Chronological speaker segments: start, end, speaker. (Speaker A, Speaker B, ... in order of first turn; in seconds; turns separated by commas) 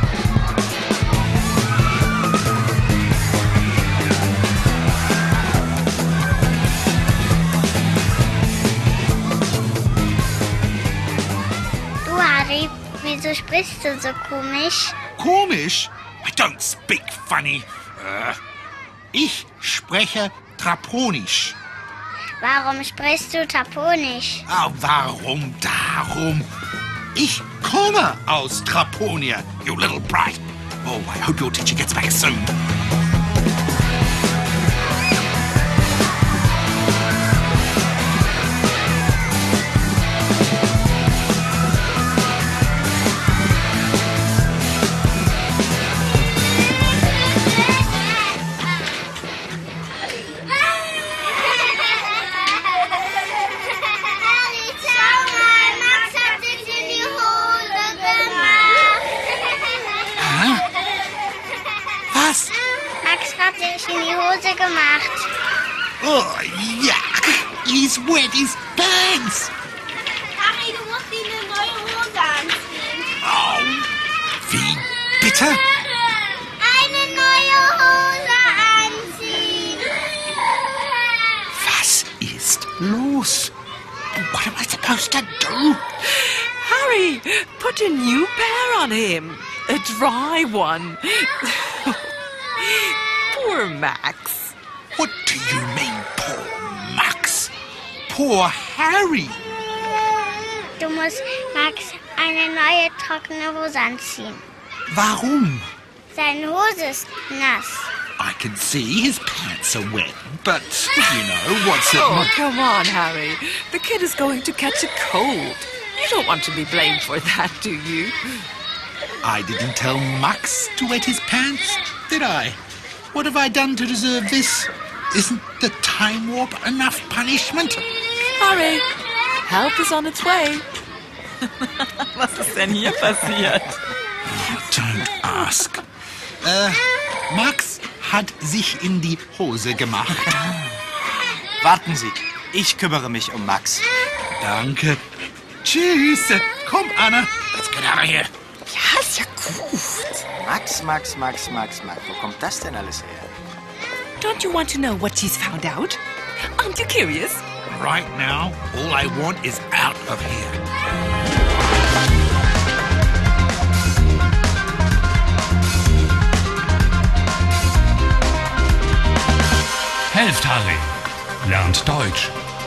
Speaker A: 12.0-15.0, Speaker B: 15.2-18.4, Speaker B: 19.1-21.6, Speaker A: 22.4-24.4, Speaker B: 24.5-26.5, Speaker B: 27.1-32.5, Speaker A: 54.1-59.0, Speaker B: 60.2-60.7, Speaker B: 62.1-62.6, Speaker A: 63.0-65.3, Speaker B: 66.0-69.5, Speaker A: 70.4-73.1, Speaker B: 73.2-73.9, Speaker B: 74.4-75.6, Speaker A: 76.6-80.0, Speaker B: 81.5-83.5, Speaker B: 84.2-85.8, Speaker C: 86.1-92.0, Speaker C: 92.6-94.5, Speaker B: 94.9-97.5, Speaker B: 98.1-99.4, Speaker A: 100.8-104.4, Speaker B: 104.9-105.7, Speaker A: 106.1-107.9, Speaker B: 108.2-112.3, Speaker C: 111.1-118.2, Speaker B: 119.2-122.6, Speaker B: 123.1-127.8, Speaker C: 128.4-128.9, Speaker C: 129.4-130.7, Speaker D: 131.6-133.8, Speaker B: 134.3-135.8, Speaker B: 136.4-140.4, Speaker E: 141.6-143.9, Speaker B: 144.4-145.0, Speaker B: 145.6-148.3, Speaker C: 148.7-150.2, Speaker E: 150.3-153.3, Speaker C: 154.2-156.0, Speaker C: 156.6-157.4, Speaker B: 157.7-160.6, Speaker F: 170.1-172.3